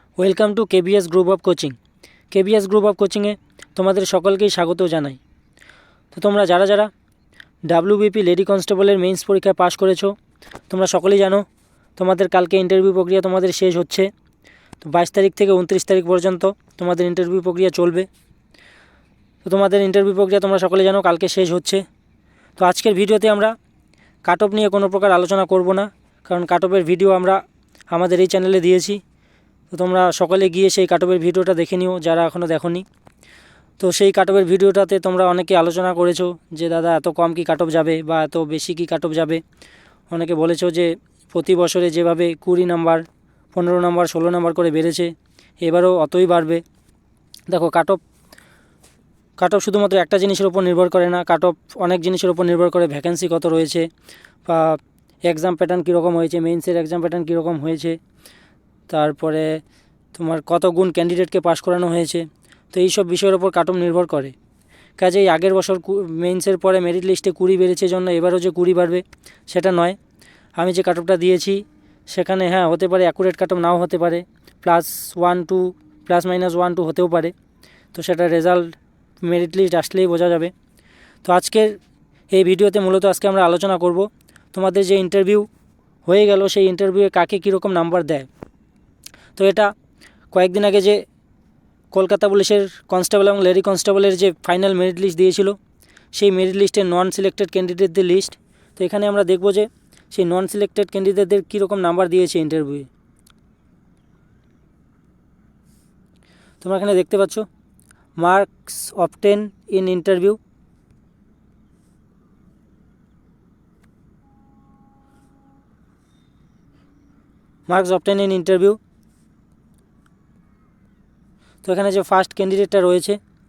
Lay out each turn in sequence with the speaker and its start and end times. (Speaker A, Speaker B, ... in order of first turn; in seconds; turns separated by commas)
Speaker A: 0.2-1.8, Speaker A: 2.3-5.2, Speaker A: 6.1-6.9, Speaker A: 7.7-10.1, Speaker A: 10.7-11.4, Speaker A: 12.0-14.1, Speaker A: 14.8-18.1, Speaker A: 19.4-21.8, Speaker A: 22.6-23.5, Speaker A: 24.2-27.4, Speaker A: 27.9-29.0, Speaker A: 29.7-32.8, Speaker A: 33.8-39.4, Speaker A: 40.1-46.6, Speaker A: 47.5-48.0, Speaker A: 49.4-53.9, Speaker A: 54.5-58.0, Speaker A: 58.9-59.6, Speaker A: 60.1-64.3, Speaker A: 65.0-70.0, Speaker A: 70.6-77.3, Speaker A: 77.9-80.5, Speaker A: 81.2-81.8, Speaker A: 82.3-85.5, Speaker A: 86.0-88.3, Speaker A: 89.3-89.7, Speaker A: 90.3-91.0, Speaker A: 91.9-95.6, Speaker A: 96.1-102.9, Speaker A: 106.6-107.5, Speaker A: 108.2-110.4, Speaker A: 117.7-118.8, Speaker A: 121.6-123.2